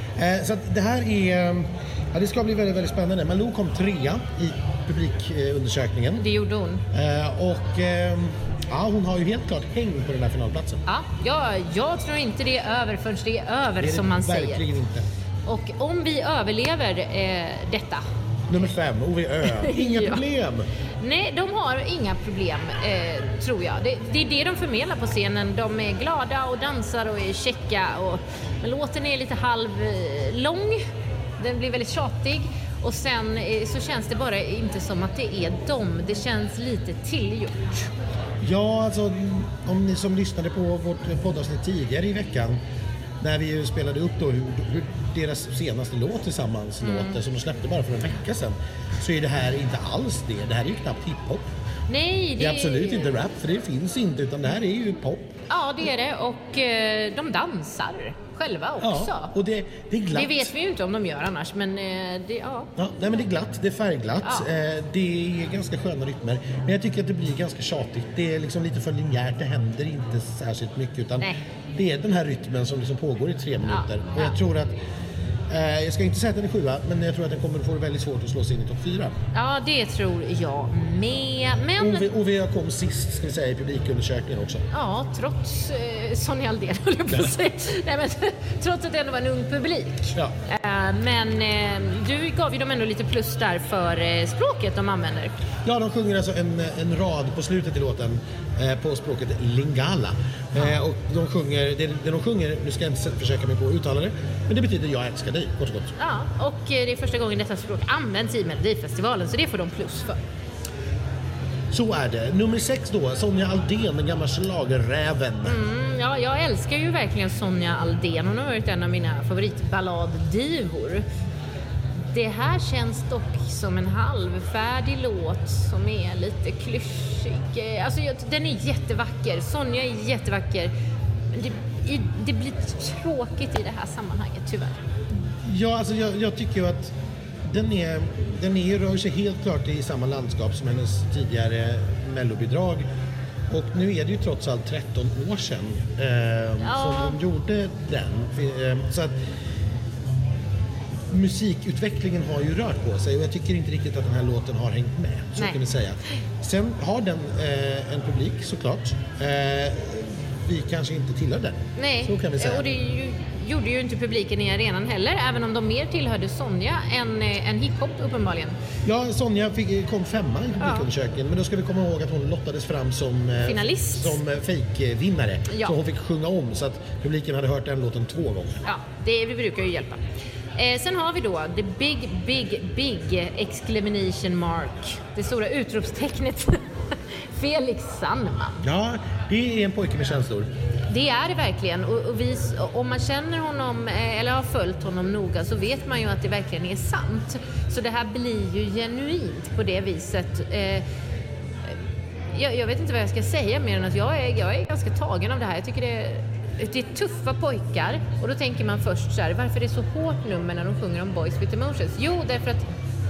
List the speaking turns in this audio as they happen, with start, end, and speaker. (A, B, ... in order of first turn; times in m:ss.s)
0:00.2-0:06.2 A
0:06.2-0:06.8 B
0:06.9-0:10.8 A
0:10.8-0:14.6 B
0:13.8-0:15.0 A
0:15.4-0:18.0 B
0:18.5-0:20.7 A
0:19.4-0:20.2 B
0:21.0-0:30.8 B
0:31.4-0:37.8 B
0:38.4-0:42.6 A
0:43.2-0:51.5 A
0:46.8-0:47.2 B
0:51.9-0:53.1 B
0:52.4-0:55.4 A
0:55.5-0:59.3 B
0:58.8-1:00.5 A
1:00.1-1:02.7 B
1:02.8-1:14.8 A
1:04.2-1:04.5 B
1:13.6-1:14.4 B
1:15.5-1:19.2 A
1:19.3-1:22.1 B
1:21.8-1:24.6 A
1:24.7-1:35.3 B
1:27.1-1:27.3 A
1:35.6-1:45.9 A
1:46.0-1:50.2 B
1:51.7-1:55.6 A
1:55.4-2:01.0 B
2:02.0-2:10.7 B
2:11.3-2:14.8 B
2:15.3-2:22.9 A
2:23.5-2:29.2 A
2:26.6-2:27.2 B
2:31.1-2:42.7 A
2:41.8-2:48.6 B
2:48.8-2:58.6 A
2:50.6-2:50.8 B
2:53.4-2:54.2 B
2:55.5-2:55.7 B
2:58.6-3:00.0 B
3:00.6-3:08.6 B
3:08.6-3:10.5 A
3:10.9-3:20.8 B
3:22.3-3:32.7 B